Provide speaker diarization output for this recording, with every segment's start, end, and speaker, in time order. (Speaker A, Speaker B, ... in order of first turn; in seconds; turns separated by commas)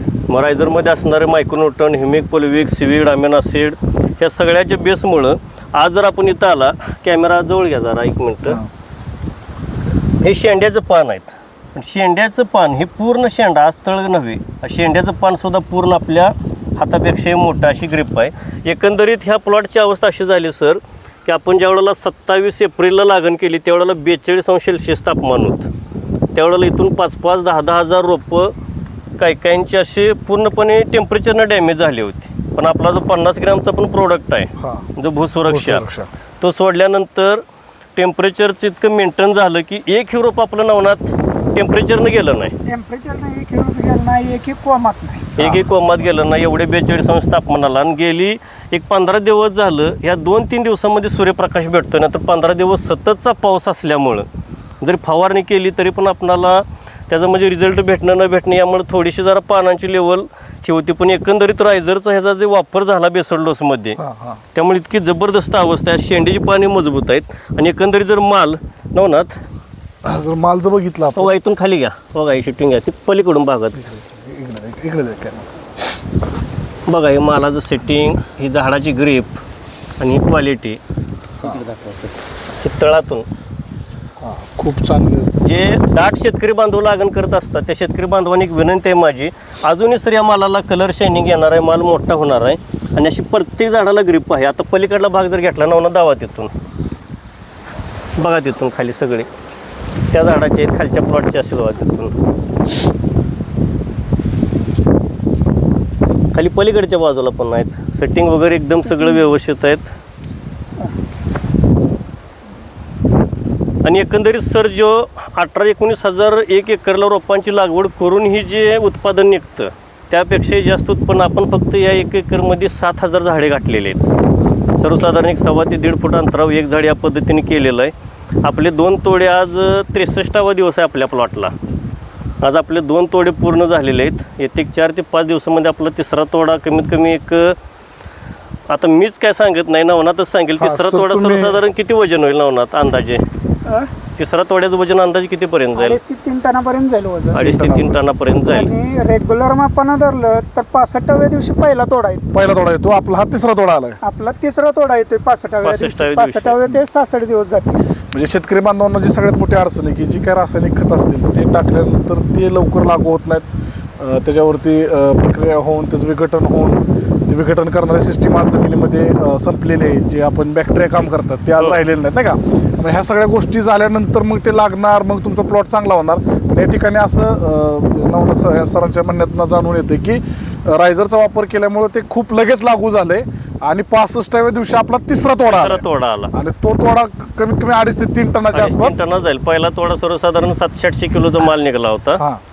Speaker A: 0.3-8.6, Speaker B: 8.4-8.7, Speaker A: 10.2-25.7, Speaker A: 26.3-28.5, Speaker A: 29.2-35.9, Speaker B: 34.6-34.9, Speaker B: 35.5-36.1, Speaker A: 36.4-37.4, Speaker A: 38.0-42.5, Speaker C: 42.7-45.3, Speaker A: 45.3-54.3, Speaker B: 45.4-45.7, Speaker A: 54.8-64.0, Speaker B: 64.0-64.4, Speaker A: 64.5-69.3, Speaker B: 70.0-71.3, Speaker A: 71.2-73.8, Speaker B: 73.7-75.5, Speaker A: 76.9-79.4, Speaker A: 80.0-80.8, Speaker A: 81.4-83.3, Speaker B: 84.2-85.4, Speaker A: 85.4-96.5, Speaker A: 98.2-99.3, Speaker A: 100.1-102.1, Speaker A: 106.3-109.9, Speaker C: 108.9-109.2, Speaker A: 113.8-124.1, Speaker A: 124.8-131.5, Speaker A: 132.4-137.6, Speaker A: 138.7-143.2, Speaker B: 140.6-141.6, Speaker C: 143.7-143.9, Speaker A: 144.2-146.0, Speaker C: 145.8-147.4, Speaker A: 147.3-148.7, Speaker B: 147.4-148.0, Speaker C: 148.5-152.3, Speaker B: 152.3-154.0, Speaker C: 154.0-157.8, Speaker A: 155.6-156.6, Speaker B: 158.1-163.4, Speaker B: 164.0-189.0, Speaker A: 185.5-186.3, Speaker A: 188.5-192.2